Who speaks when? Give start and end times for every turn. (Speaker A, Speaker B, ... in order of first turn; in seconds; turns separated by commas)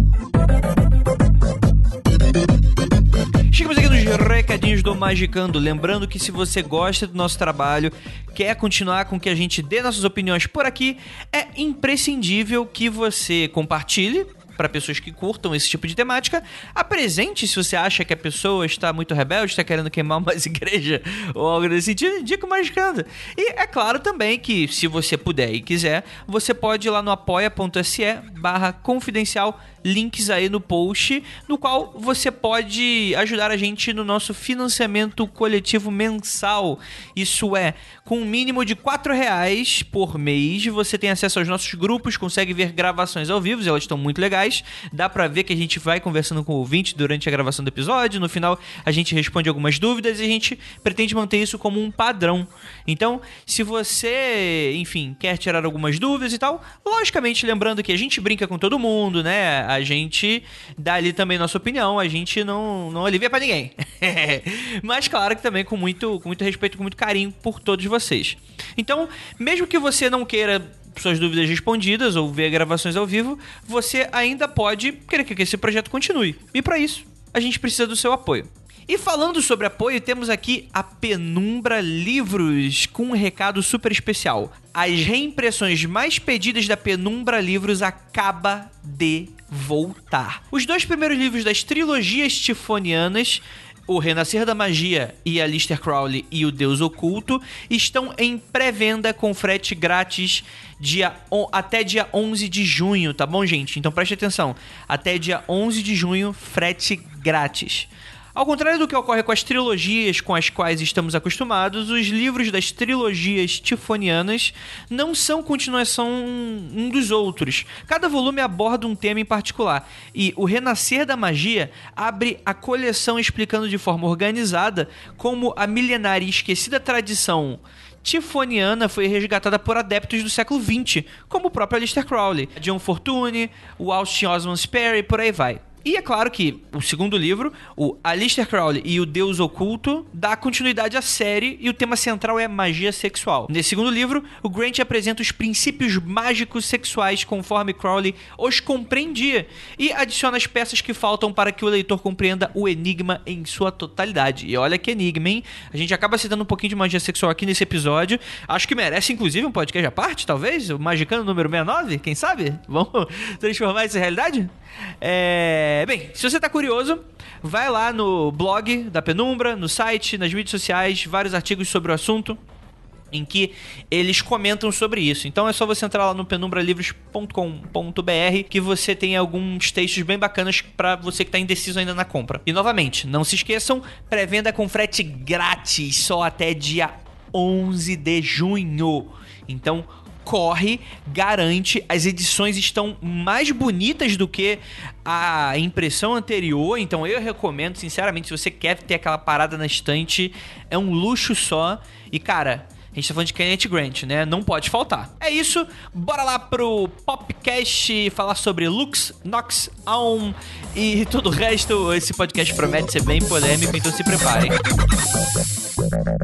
Speaker A: 3.5-172.4, Speaker A: 173.1-214.6